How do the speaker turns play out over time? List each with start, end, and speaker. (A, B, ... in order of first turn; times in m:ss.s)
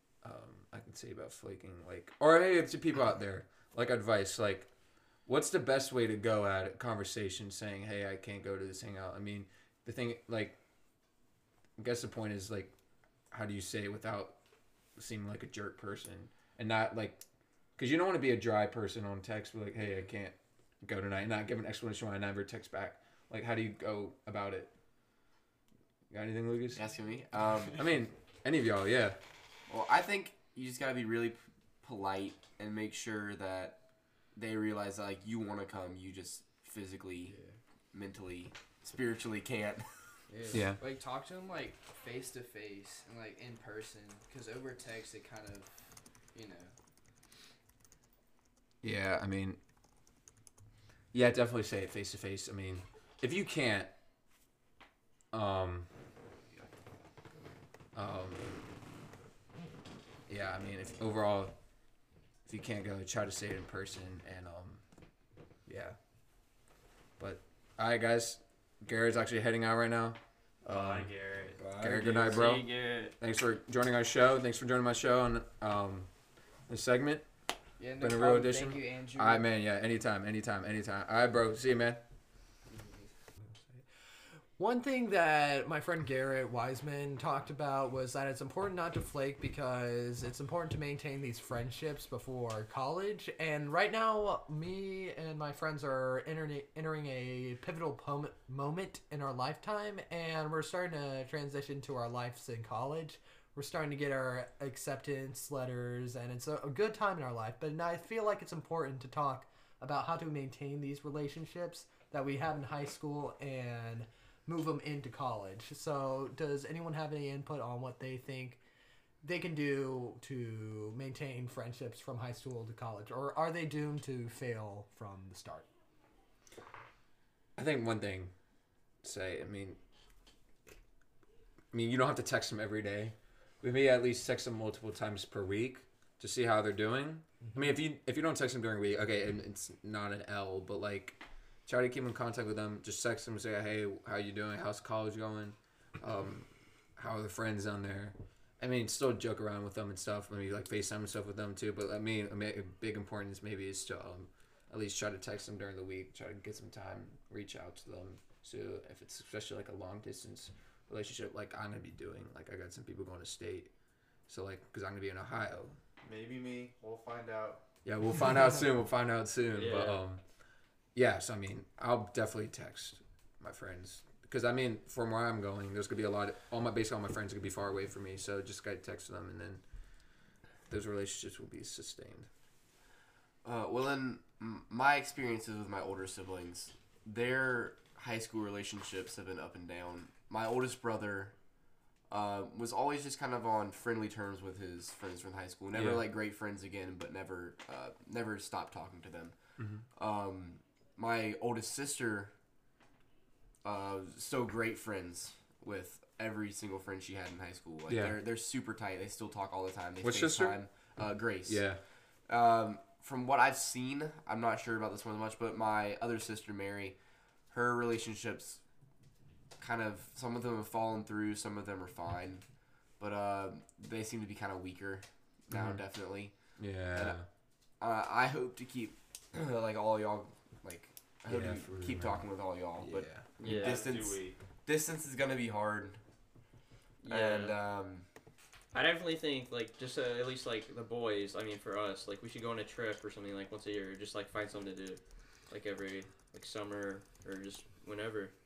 0:00.2-0:04.7 A
0:05.3-0:10.6 A
0:11.8-0:12.7 A
0:13.3-0:14.4 A
0:15.0-0:17.2 A
0:17.8-0:24.7 A
0:26.1-0:26.8 A
0:26.8-0:27.8 B
0:27.7-0:29.2 A
0:29.7-0:33.8 B
0:34.3-0:37.4 B
0:37.2-0:37.6 C
0:37.9-0:39.9 B
0:40.3-0:46.7 C
0:40.5-0:40.8 A
0:48.8-0:49.6 A
0:51.1-0:53.9 A
0:55.3-0:55.9 A
0:58.0-0:58.8 A
1:00.3-1:01.6 A
1:02.5-1:04.8 A
1:05.7-1:06.0 A
1:07.2-1:11.1 A
1:10.6-1:11.7 D
1:11.6-1:12.4 B
1:11.8-1:16.1 A
1:11.8-1:13.1 E
1:16.7-1:17.2 A
1:17.8-1:19.5 C
1:18.0-1:22.0 A
1:24.6-1:58.6 F
1:59.2-2:05.7 F
2:07.6-2:08.3 A
2:09.0-2:09.8 A
2:11.7-2:43.7 A
2:44.3-2:45.8 A
2:46.0-2:47.6 D
2:47.8-2:50.2 A
2:49.5-2:50.0 E
2:51.0-2:59.6 A
3:00.7-3:02.3 A
3:03.4-3:11.4 B
3:12.1-3:19.4 B
3:15.7-3:16.1 A
3:19.6-3:19.8 A
3:20.0-3:22.3 B
3:23.6-3:31.8 B
3:27.9-3:28.2 A
3:30.0-3:30.6 A
3:31.4-3:31.8 A
3:32.3-3:37.0 B
3:37.5-3:38.6 B
3:39.6-3:47.2 B
3:45.5-3:45.8 A
3:46.5-3:47.3 A
3:47.8-3:56.0 B
3:51.3-3:52.2 A
3:52.8-3:53.3 A
3:53.4-3:53.9 E
3:53.4-3:54.4 D
3:57.0-3:57.6 E
3:57.1-3:58.1 B
3:58.7-4:08.3 E